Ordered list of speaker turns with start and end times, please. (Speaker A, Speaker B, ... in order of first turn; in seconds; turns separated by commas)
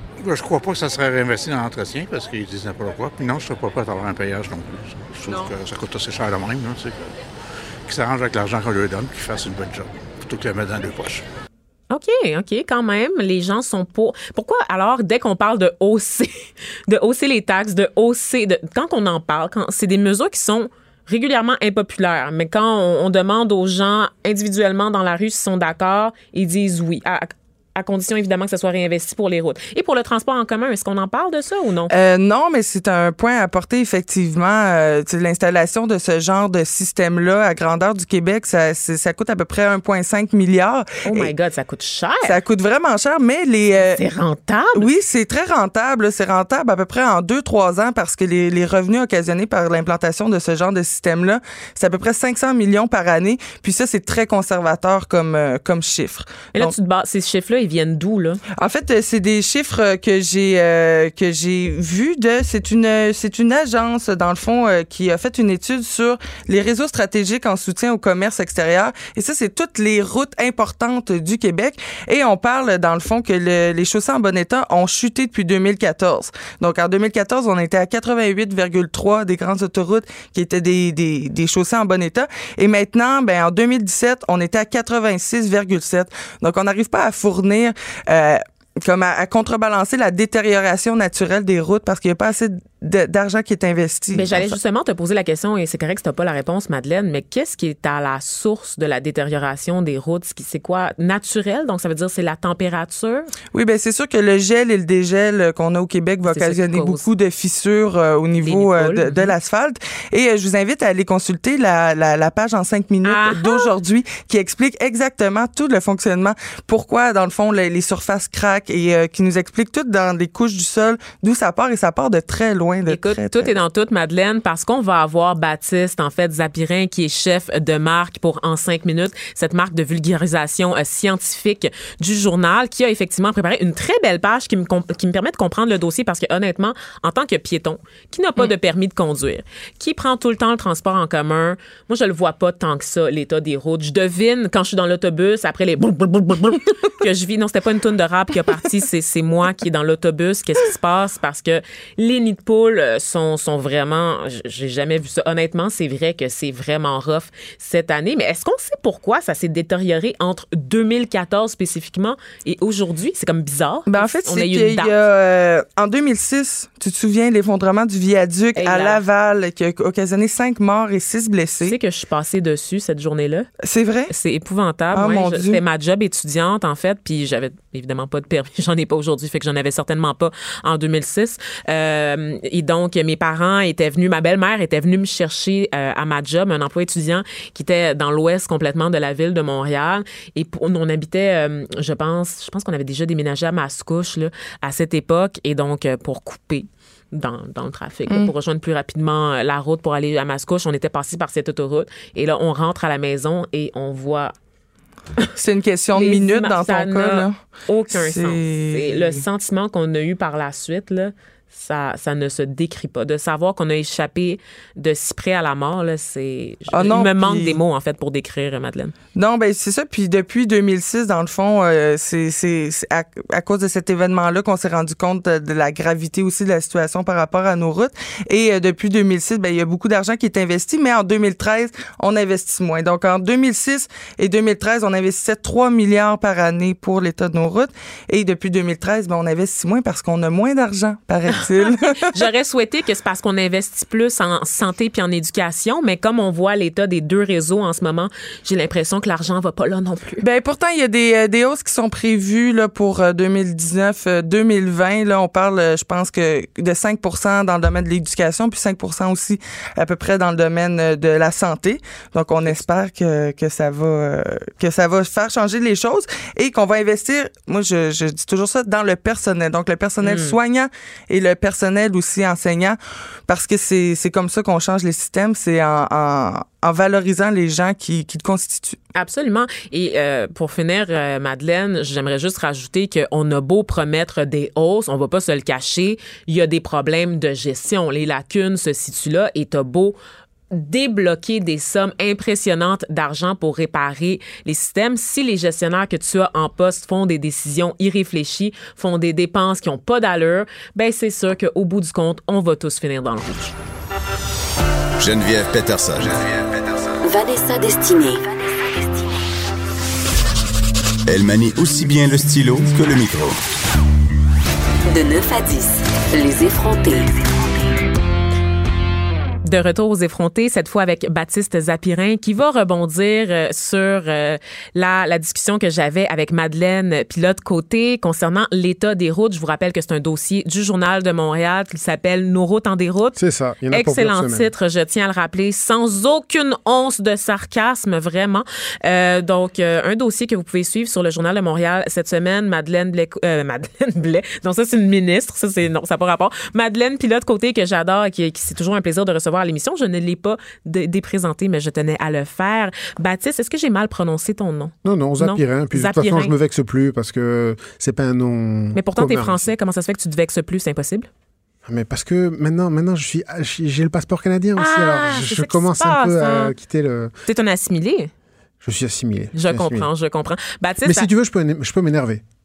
Speaker A: 0.2-7.2, Speaker A: 7.8-11.2, Speaker B: 11.9-31.9, Speaker C: 31.9-41.3, Speaker B: 41.0-42.4, Speaker C: 42.2-44.0, Speaker B: 43.8-44.9, Speaker C: 44.7-56.7, Speaker B: 56.5-58.4, Speaker C: 58.6-94.5, Speaker B: 94.1-103.3, Speaker C: 103.5-123.5, Speaker B: 106.2-107.0, Speaker B: 108.4-109.3, Speaker B: 113.0-113.7, Speaker B: 122.9-165.0, Speaker C: 163.9-171.7, Speaker B: 168.5-169.0, Speaker B: 171.6-173.5, Speaker C: 173.6-174.1, Speaker B: 174.1-204.3, Speaker C: 174.9-175.6, Speaker C: 205.4-207.4, Speaker B: 205.9-218.9, Speaker C: 207.9-209.2, Speaker C: 216.7-217.6, Speaker C: 219.2-242.1, Speaker B: 241.3-250.2, Speaker C: 250.2-278.8, Speaker B: 270.0-270.4, Speaker B: 278.9-290.0, Speaker B: 290.5-303.5, Speaker D: 305.0-306.5, Speaker E: 307.0-309.0, Speaker D: 311.1-313.4, Speaker E: 314.9-317.1, Speaker B: 319.4-333.2, Speaker F: 333.1-334.5, Speaker B: 333.7-356.3, Speaker F: 354.8-359.5, Speaker B: 358.7-361.1, Speaker F: 361.6-367.1, Speaker B: 364.6-366.5, Speaker B: 367.2-368.1, Speaker F: 368.6-369.9, Speaker B: 369.3-371.1, Speaker F: 370.8-372.2